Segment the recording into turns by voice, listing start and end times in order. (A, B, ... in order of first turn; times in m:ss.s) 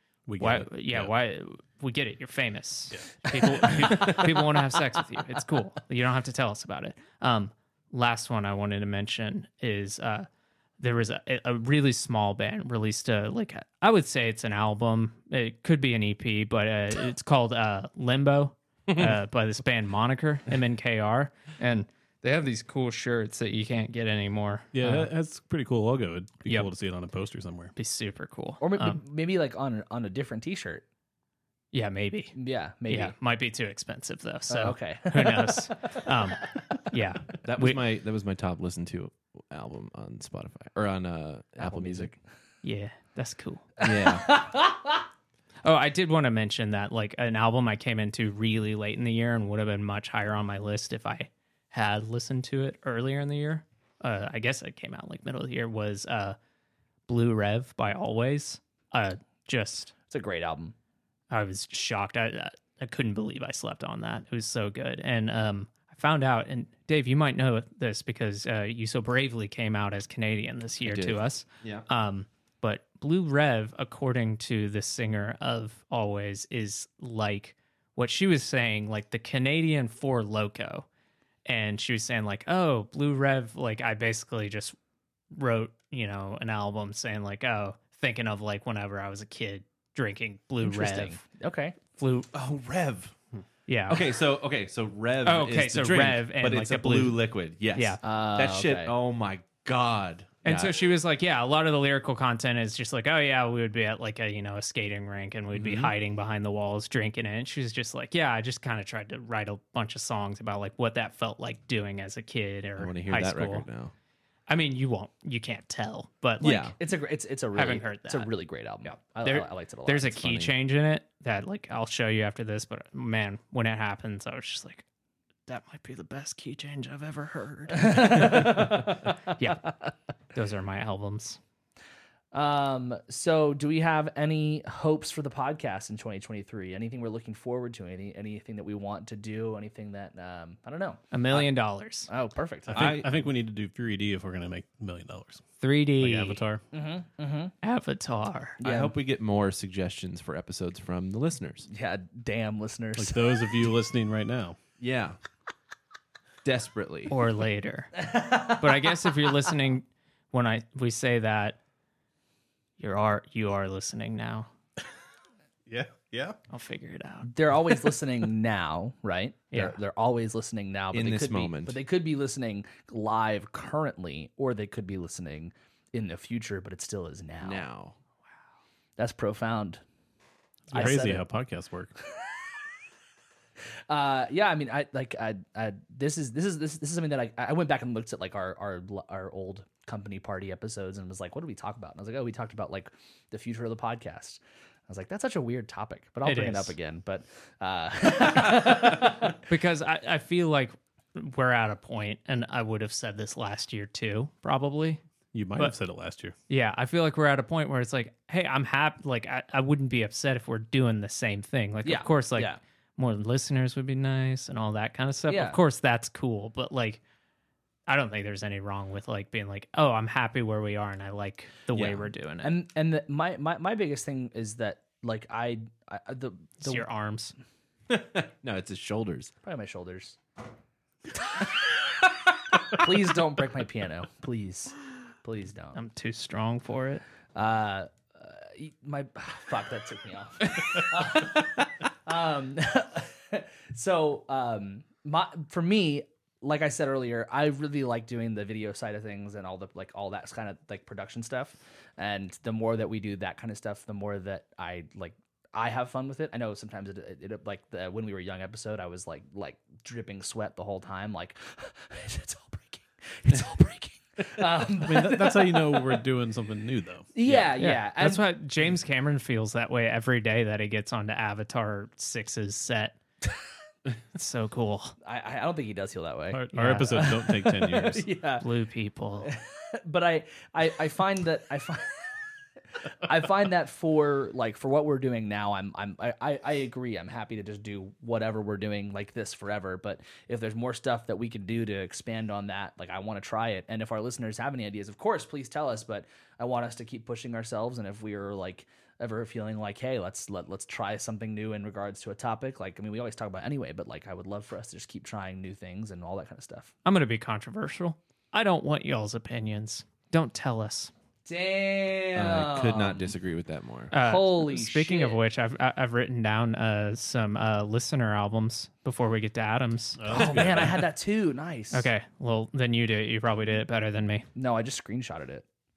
0:00.3-0:01.1 A
0:00.4-0:10.3 B
0:03.3-0:04.6 C
0:10.8-0:25.1 B
0:18.9-0:19.2 D
0:24.7-0:27.7 A
0:27.8-0:29.0 B
0:28.6-0:30.8 C
0:31.7-0:32.3 B
0:32.3-0:33.1 C
0:32.9-0:37.8 B
0:34.5-0:36.1 C
0:37.4-0:42.1 D
0:41.6-0:42.2 C
0:42.6-0:43.7 B
0:43.8-0:44.4 D
0:43.8-0:44.9 C
0:45.6-0:56.4 B
0:57.1-0:59.9 B
1:00.1-1:00.7 C
1:01.3-1:20.8 B
1:10.8-1:11.8 D
1:21.4-1:24.8 B
1:25.3-1:31.2 B
1:30.6-1:31.8 C
1:31.9-1:32.3 B
1:32.3-1:33.2 D
1:33.7-1:34.0 B
1:33.9-1:40.7 D
1:35.2-1:37.2 B
1:37.7-1:38.0 B
1:38.0-1:38.9 C
1:40.4-1:53.7 B
1:45.5-1:45.9 D
1:52.8-1:53.9 D
1:54.5-1:56.8 B
1:56.4-1:56.7 D
1:56.7-2:00.2 C
1:57.5-1:58.3 B
1:59.2-2:04.8 B
2:00.2-2:00.5 D
2:05.5-2:09.7 B
2:07.7-2:09.0 C
2:10.3-2:11.4 B
2:12.3-2:21.5 C
2:21.1-2:22.1 B
2:22.1-2:22.9 C
2:22.7-2:25.5 A
2:22.7-2:23.1 D
2:25.6-2:26.4 B
2:26.0-2:26.6 A
2:26.7-2:27.5 C
2:27.6-2:28.6 B
2:28.6-2:28.9 C
2:28.6-2:31.7 D
2:31.7-2:33.4 C
2:33.0-2:34.6 A
2:34.8-2:35.2 D
2:36.4-2:37.1 D
2:37.1-2:41.6 B
2:38.0-2:38.7 C
2:42.8-2:44.5 B
2:45.7-2:46.4 A
2:46.5-2:47.3 B
2:47.2-2:57.6 C
2:49.5-2:49.8 B
2:50.9-2:51.8 D
2:57.4-2:58.0 D
2:59.0-2:59.8 C
3:00.7-3:01.9 A
3:00.7-3:01.2 C
3:03.9-3:19.4 C
3:16.2-3:16.7 B
3:19.5-3:25.0 B
3:25.3-3:26.3 A
3:26.5-3:37.0 B
3:31.8-3:32.6 C
3:35.3-3:35.6 C
3:37.9-3:42.5 B
3:41.7-3:42.0 D
3:42.4-3:46.8 C
3:46.6-3:47.3 B
3:47.9-3:49.3 D
3:49.4-3:50.2 C
3:52.6-3:55.8 C
3:55.7-3:57.0 B
3:57.3-4:26.0 C
4:24.7-4:27.1 A
4:27.1-4:28.3 C
4:27.6-4:33.0 B
4:34.1-4:35.0 B
4:35.0-4:38.4 C
4:36.3-4:38.1 A
4:36.5-4:37.0 B
4:38.4-4:39.3 B
4:39.2-4:41.9 C
4:43.0-5:06.7 C
5:06.8-5:10.9 B
5:11.2-5:13.1 C
5:12.1-5:13.9 D
5:13.9-5:20.4 B
5:13.9-5:15.2 C
5:20.0-5:20.9 A
5:20.1-5:21.9 C
5:21.7-5:24.3 B
5:24.3-5:25.4 C